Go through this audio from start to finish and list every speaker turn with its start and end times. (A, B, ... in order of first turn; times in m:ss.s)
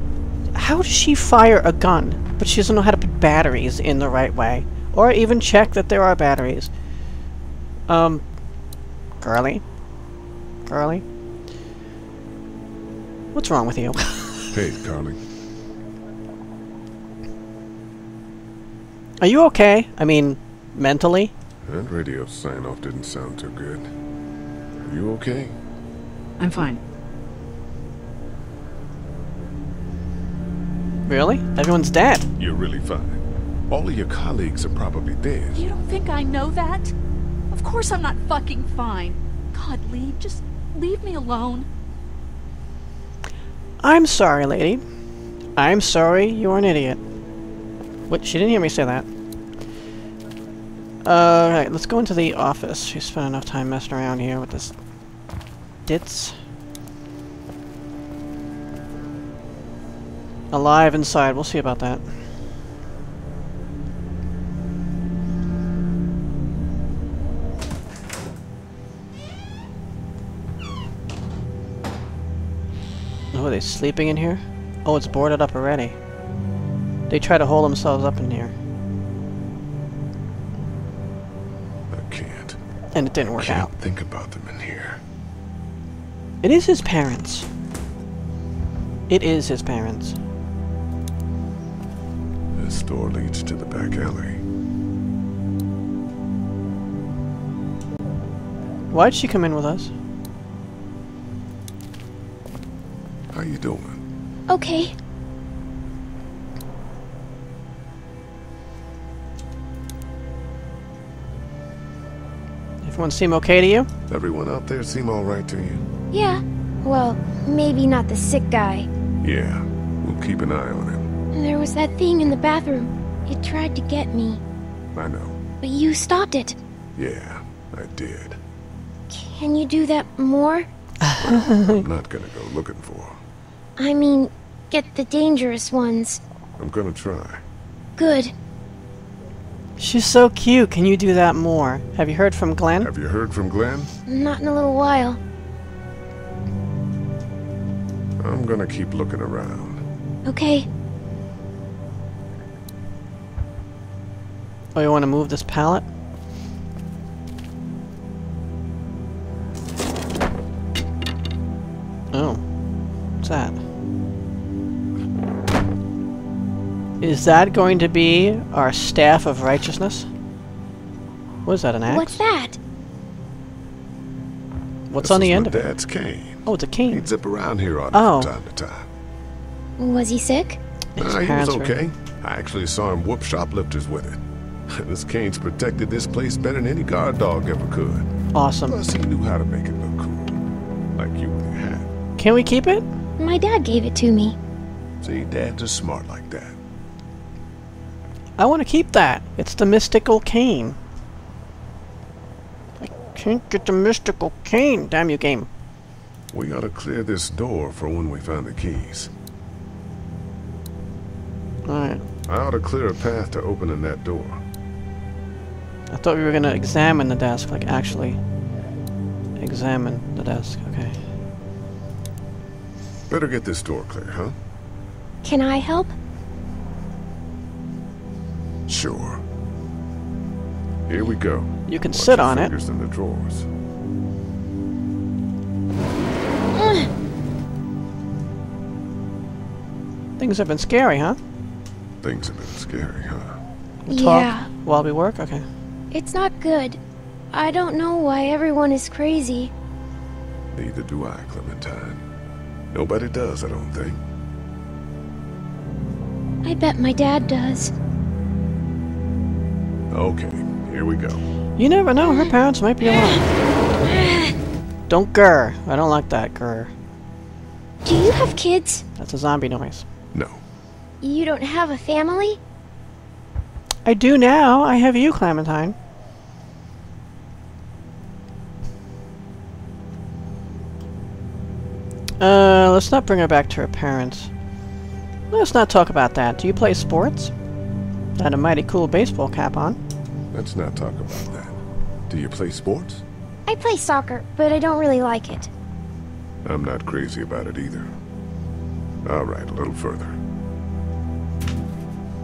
0:00.5-0:06.7 A
0:07.9-0:08.2 A
0:09.2-0:09.6 A
0:10.6-0:11.0 A
0:13.3-0:14.6 A
0:14.5-0:15.2 B
0:19.2-0:21.3 A
0:21.6-0:23.9 B
0:24.7-0:25.6 B
0:26.4-0:26.8 C
0:31.1-0:32.3 A
0:32.4-0:35.6 B
0:35.5-0:36.9 C
0:37.5-0:41.7 C
0:43.8-0:44.8 A
0:45.6-0:47.0 A
0:48.1-0:49.0 A
0:51.0-0:54.7 A
0:55.8-0:56.4 A
1:00.5-1:02.2 A
1:13.3-1:16.0 A
1:17.1-1:18.5 A
1:21.9-1:22.6 B
1:22.9-1:23.7 A
1:23.2-1:25.0 B
1:26.4-1:27.5 A
1:29.1-1:30.2 A
1:32.5-1:34.4 B
1:38.9-1:39.9 A
1:43.3-1:44.0 B
1:44.5-1:44.9 D
1:52.8-1:53.9 A
1:54.1-1:55.8 B
1:56.1-1:58.9 D
1:59.2-2:01.1 B
2:01.3-2:04.4 D
2:04.9-2:05.4 B
2:05.6-2:06.6 D
2:07.0-2:08.4 B
2:09.1-2:10.7 D
2:11.0-2:11.8 A
2:11.2-2:13.2 B
2:13.8-2:16.2 D
2:16.6-2:17.4 B
2:18.0-2:18.3 D
2:19.8-2:22.9 A
2:22.8-2:23.9 B
2:24.1-2:25.2 D
2:28.2-2:29.8 B
2:30.2-2:30.7 D
2:34.7-2:35.8 A
2:42.1-2:42.4 A
2:43.2-2:43.6 A
2:47.0-2:50.1 A
2:51.4-2:52.2 A
2:51.9-2:52.6 D
2:54.9-2:55.7 A
2:55.0-2:58.9 B
2:56.4-2:57.1 A
2:57.9-2:58.3 A
2:59.8-3:00.6 D
3:01.0-3:01.7 A
3:01.0-3:08.1 B
3:08.3-3:08.8 A
3:08.6-3:10.4 B
3:11.0-3:11.9 B
3:12.2-3:12.8 A
3:13.2-3:14.4 D
3:15.0-3:16.6 B
3:18.4-3:20.8 A
3:22.8-3:25.5 A
3:26.3-3:29.1 B
3:31.6-3:32.0 A
3:32.3-3:34.4 B
3:35.9-3:38.2 A
3:39.4-3:41.0 A
3:43.1-3:44.3 B
3:45.2-3:45.9 D
3:48.7-3:49.2 B
3:50.9-3:53.5 B
3:51.7-3:52.5 A
3:56.5-3:56.9 D
4:00.2-4:01.2 A
4:02.0-4:03.4 B
4:03.9-4:05.4 A
4:03.9-4:04.5 D
4:05.9-4:06.8 D
4:07.3-4:09.5 D
4:10.5-4:12.0 B
4:12.7-4:14.0 B
4:16.4-4:17.7 D
4:19.9-4:21.2 B
4:21.6-4:23.2 A
4:22.0-4:22.3 D
4:23.8-4:24.3 D
4:24.9-4:26.7 A
4:27.8-4:28.8 D
4:29.0-4:29.8 A
4:30.1-4:30.4 B
4:31.0-4:32.4 D
4:33.8-4:35.7 A
4:42.2-4:44.3 A
4:45.3-4:47.3 A
4:48.2-4:49.8 A
4:50.3-4:53.0 B
4:53.4-4:55.5 D
4:56.4-4:57.9 B
4:59.0-5:00.2 B